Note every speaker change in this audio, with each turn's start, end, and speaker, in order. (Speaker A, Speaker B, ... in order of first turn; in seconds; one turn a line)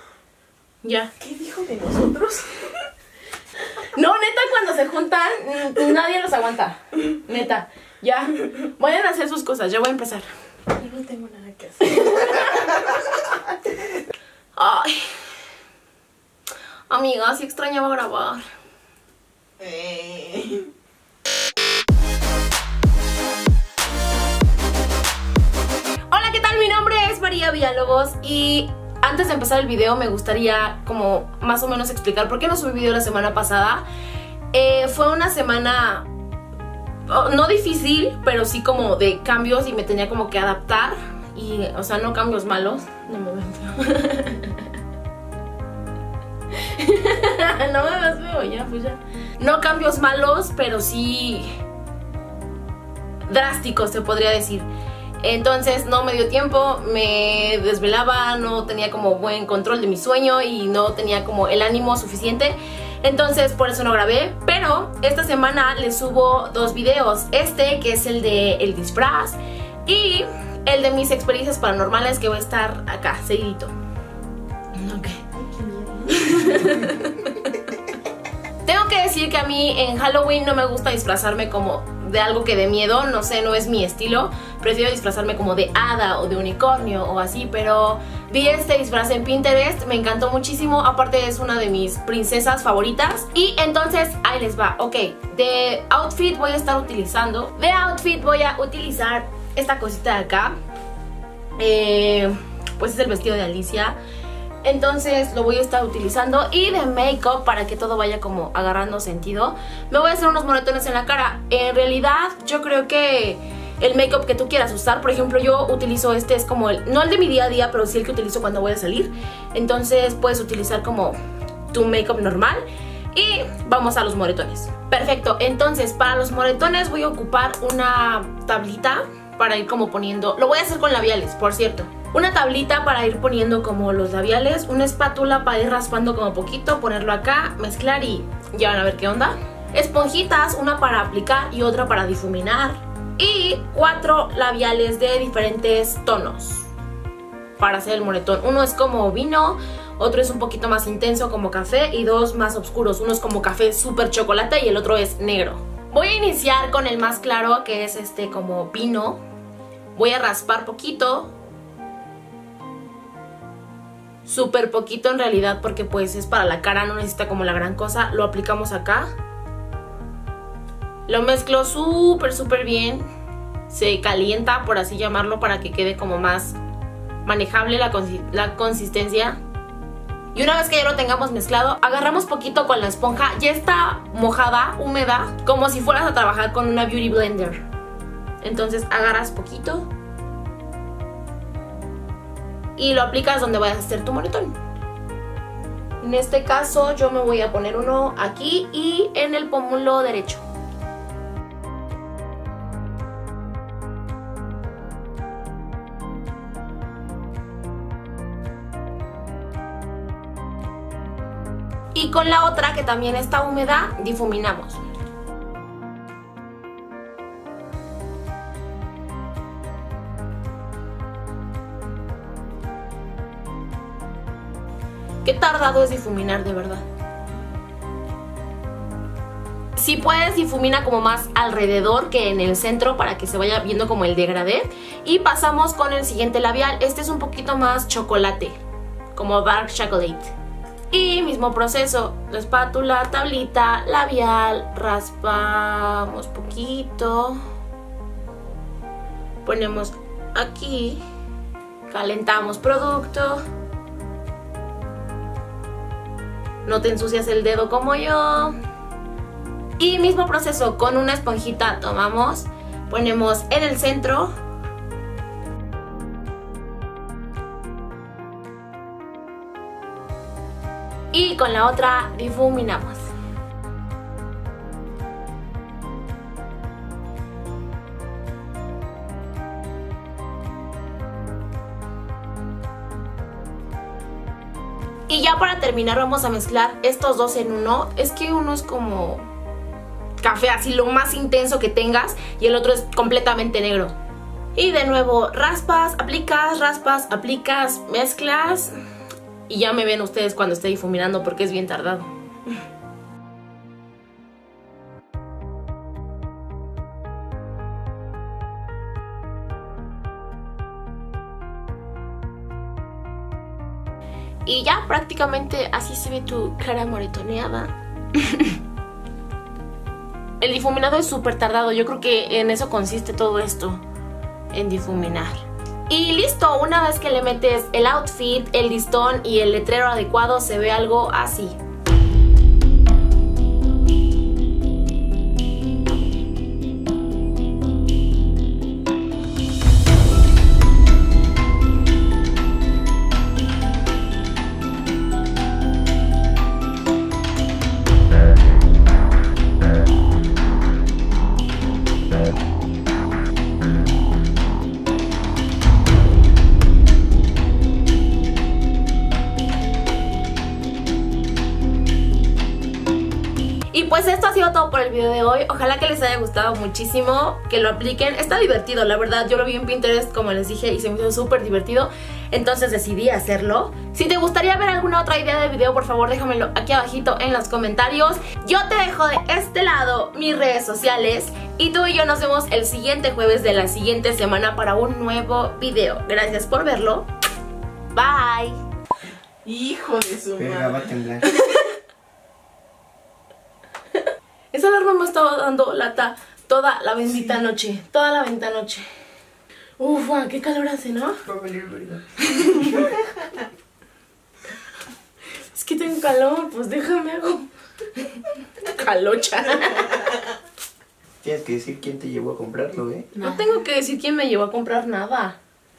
Speaker A: 0.8-1.1
Speaker B: 1.2-2.8
Speaker A: 3.8-10.3
Speaker B: 10.7-13.1
Speaker A: 11.9-12.7
Speaker A: 14.6-15.1
Speaker A: 16.9-18.4
Speaker B: 19.6-20.7
Speaker A: 26.1-33.8
Speaker A: 34.5-36.1
Speaker A: 37.1-44.7
Speaker A: 46.5-51.5
Speaker A: 53.3-54.7
Speaker A: 55.2-73.7
Speaker A: 74.7-75.2
Speaker B: 75.3-76.3
Speaker A: 76.0-77.5
Speaker A: 78.6-100.5
Speaker A: 101.6-104.0
Speaker A: 104.6-121.2
Speaker A: 121.7-146.7
Speaker A: 147.6-159.2
Speaker A: 159.9-161.3
Speaker A: 164.2-169.1
Speaker A: 171.1-173.1
Speaker A: 173.7-176.6
Speaker A: 177.2-179.4
Speaker A: 180.3-187.6
Speaker A: 188.4-189.9
Speaker A: 192.8-194.6
Speaker A: 196.0-200.4
Speaker A: 211.9-214.8
Speaker A: 225.2-226.8
Speaker A: 229.8-238.6
Speaker A: 239.1-240.3
Speaker A: 240.9-247.4
Speaker A: 249.4-251.0
Speaker A: 251.9-253.4
Speaker A: 256.6-258.6
Speaker A: 259.8-264.3
Speaker A: 271.1-273.1
Speaker A: 285.1-289.3
Speaker A: 290.2-293.9
Speaker A: 294.5-298.7
Speaker A: 299.5-302.5
Speaker A: 314.4-318.6
Speaker A: 320.4-323.8
Speaker A: 324.5-331.6
Speaker A: 363.7-387.1
Speaker A: 387.9-388.6
Speaker B: 389.4-390.9
Speaker C: 390.4-391.3
Speaker A: 391.4-391.7
Speaker A: 394.5-398.9
Speaker A: 399.8-401.2
Speaker C: 401.2-403.1
Speaker A: 402.2-402.8
Speaker A: 405.5-410.1
Speaker C: 411.2-413.1
Speaker A: 413.2-415.4